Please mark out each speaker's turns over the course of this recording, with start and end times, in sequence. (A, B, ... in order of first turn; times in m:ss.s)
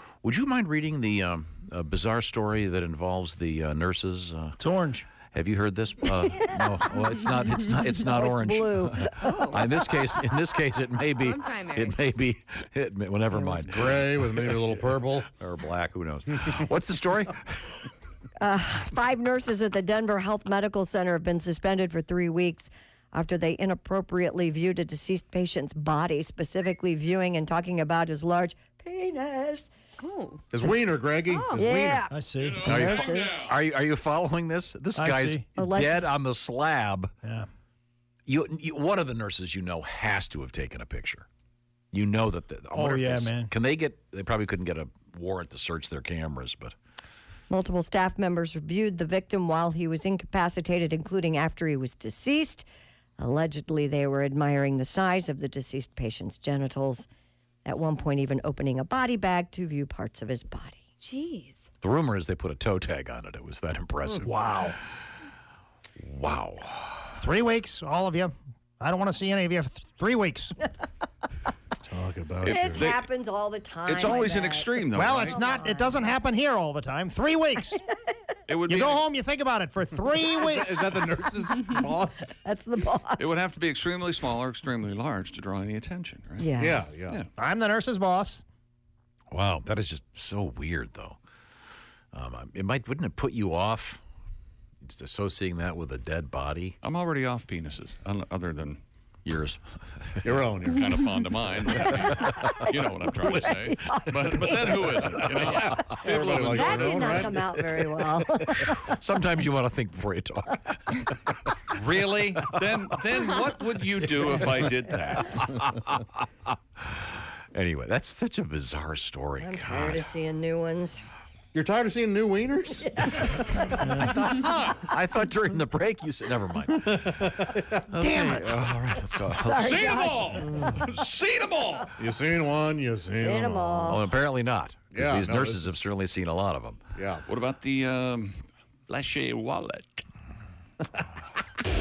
0:00.2-0:04.6 A
0:04.6-0:05.1 B
0:05.3-0:17.7 A
0:08.0-0:09.5 C
0:09.2-0:09.6 D
0:11.2-0:12.0 D
0:13.6-0:15.3 E
0:18.4-0:29.7 C
0:30.0-0:30.4 D
0:30.5-0:32.1 E
0:31.3-0:31.6 D
0:31.6-0:32.1 C
0:32.1-0:32.7 B
0:32.4-0:33.4 F
0:32.6-0:33.0 E
0:32.7-0:33.6 C
0:32.7-0:37.1 A
0:35.0-0:35.5 B
0:35.6-0:36.1 C
0:38.3-0:41.3 A
0:41.9-0:46.8 A
0:42.7-0:43.5 B
0:47.5-0:52.7 C
0:53.2-0:57.1 C
0:57.6-1:00.8 C
1:01.0-1:01.7 D
1:01.8-1:04.3 A
1:04.2-1:04.8 B
1:06.0-1:07.2 A
1:07.1-1:10.6 B
1:11.8-1:12.9 E
1:12.4-1:16.1 C
1:12.6-1:13.0 F
1:13.9-1:15.4 F
1:14.9-1:17.8 B
1:18.5-1:19.0 F
1:18.6-1:20.9 B
1:20.3-1:22.3 E
1:22.3-1:23.3 C
1:23.2-1:26.5 F
1:26.4-1:27.0 C
1:26.6-1:27.3 E
1:27.3-1:28.4 B
1:29.3-1:31.2 A
1:32.1-1:34.0 A
1:34.8-1:36.8 A
1:36.8-1:38.8 F
1:39.3-1:39.6 A
1:40.2-1:41.0 E
1:40.6-1:47.2 F
1:42.0-1:42.6 C
1:43.3-1:43.5 A
1:43.3-1:44.7 C
1:45.5-1:47.5 E
1:46.0-1:49.0 C
1:48.7-1:51.1 A
1:51.7-1:52.6 A
1:51.9-1:55.4 F
1:55.2-1:56.1 A
1:56.8-2:00.1 A
1:59.4-2:01.0 C
2:01.5-2:03.0 E
2:02.8-2:03.9 C
2:03.8-2:04.2 B
2:04.0-2:07.1 A
2:04.3-2:04.6 F
2:06.8-2:07.8 E
2:07.8-2:10.1 A
2:08.1-2:08.4 C
2:09.2-2:10.9 C
2:09.6-2:11.9 F
2:12.0-2:13.8 E
2:13.1-2:14.0 C
2:13.8-2:16.8 A
2:14.9-2:15.7 E
2:17.0-2:17.2 E
2:17.3-2:20.0 F